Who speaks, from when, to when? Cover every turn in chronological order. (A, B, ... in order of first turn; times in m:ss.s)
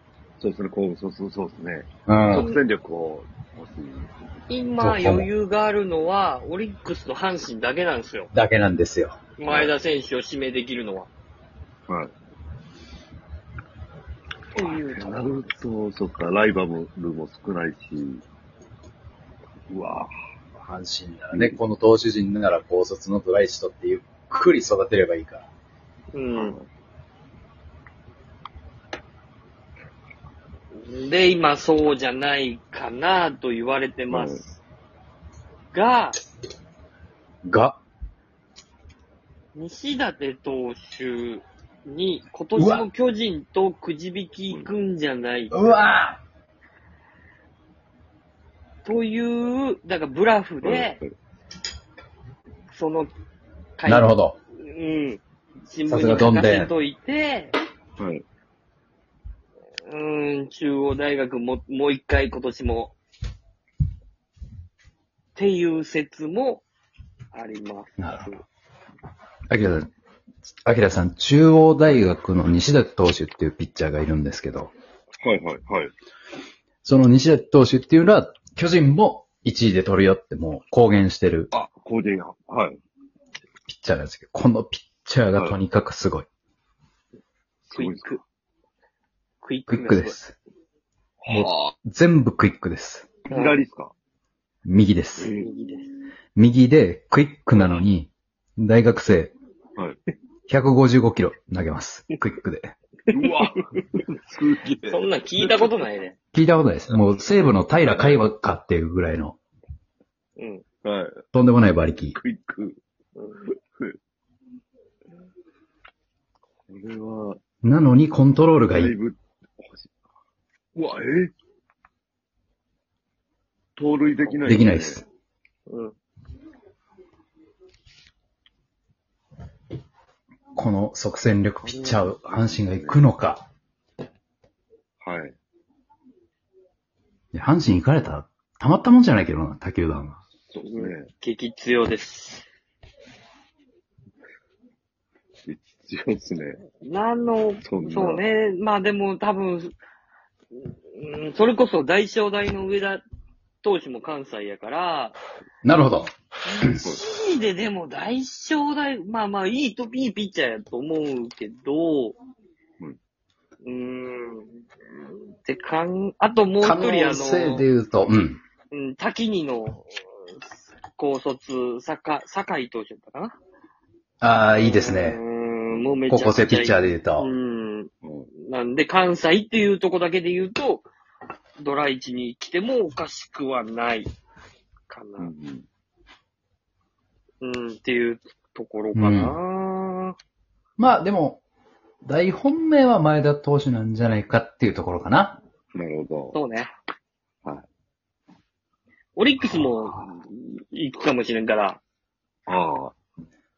0:00.4-0:04.2 A
0:02.1-0:02.5 B
0:02.3-0:02.6 C
0:04.5-0:08.3 C
0:04.8-0:05.3 B
0:08.3-0:09.2 B
0:09.4-0:11.1 C
0:09.4-0:09.7 A
0:14.5-0:15.5 C
0:14.6-0:18.2 A
0:19.7-0:20.1 A
0:20.6-0:25.5 B
0:21.3-0:21.6 A
0:26.1-0:26.6 C
0:26.3-0:26.7 A
0:30.8-0:34.6 C
0:34.1-0:34.4 A
0:35.7-0:36.2 C
0:37.4-0:37.8 B
0:39.6-0:45.7 C
0:42.6-0:42.9 B
0:45.5-0:46.2 B
0:48.8-0:51.0 C
0:50.6-0:51.1 A
0:52.7-0:53.1 C
0:53.8-0:57.6 C
0:53.9-0:54.4 B
0:55.9-0:56.7 B
0:58.0-0:58.2 A
0:59.9-1:03.0 C
1:05.4-1:06.6 C
1:07.3-1:08.4 C
1:08.0-1:08.4 B
1:09.5-1:09.9 B
1:10.6-1:14.7 B
1:15.2-1:15.9 A
1:16.8-1:21.5 B
1:21.5-1:22.8 A
1:23.7-1:26.3 B
1:27.7-1:28.2 A
1:27.7-1:28.2 C
1:29.4-1:30.2 C
1:29.7-1:30.4 B
1:31.2-1:31.7 A
1:31.3-1:33.2 B
1:33.3-1:33.9 A
1:33.3-1:33.6 C
1:34.6-1:35.3 B
1:35.2-1:35.5 A
1:35.4-1:35.9 C
1:36.4-1:39.4 B
1:37.6-1:37.8 C
1:40.5-1:42.8 B
1:43.1-1:45.8 A
1:44.9-1:46.2 C
1:46.3-1:49.4 B
1:50.4-1:50.6 C
1:50.8-1:51.2 A
1:51.3-1:52.2 B
1:52.2-1:52.8 A
1:56.7-1:57.4 A
1:57.6-1:59.0 B
1:58.7-1:59.9 A
2:00.8-2:01.3 A
2:03.8-2:05.0 A
2:04.5-2:05.1 B
2:05.7-2:06.0 C
2:10.6-2:13.4 B
2:11.6-2:13.0 A
2:15.0-2:15.4 A
2:17.3-2:20.2 B
2:20.5-2:21.1 A
2:20.7-2:22.5 C
2:25.5-2:26.6 A
2:26.8-2:29.7 C
2:27.6-2:28.2 A
2:30.6-2:33.0 C
2:33.6-2:35.2 C
2:35.6-2:36.8 B
2:36.5-2:42.2 C
2:43.6-2:44.5 C
2:45.4-2:47.7 C
2:46.6-2:48.4 B
2:48.7-2:50.4 C
2:51.0-2:53.4 C
2:54.2-2:55.2 B
2:54.5-3:00.9 C
2:56.1-2:57.3 B
2:58.0-2:58.3 A
3:01.6-3:04.1 C
3:04.9-3:05.3 C
3:05.2-3:05.6 A
3:07.4-3:10.2 C
3:09.0-3:09.4 B
3:10.8-3:11.4 B
3:12.0-3:15.4 B
3:15.8-3:16.4 A
3:16.3-3:16.7 C
3:19.2-3:21.8 C
3:22.5-3:22.9 A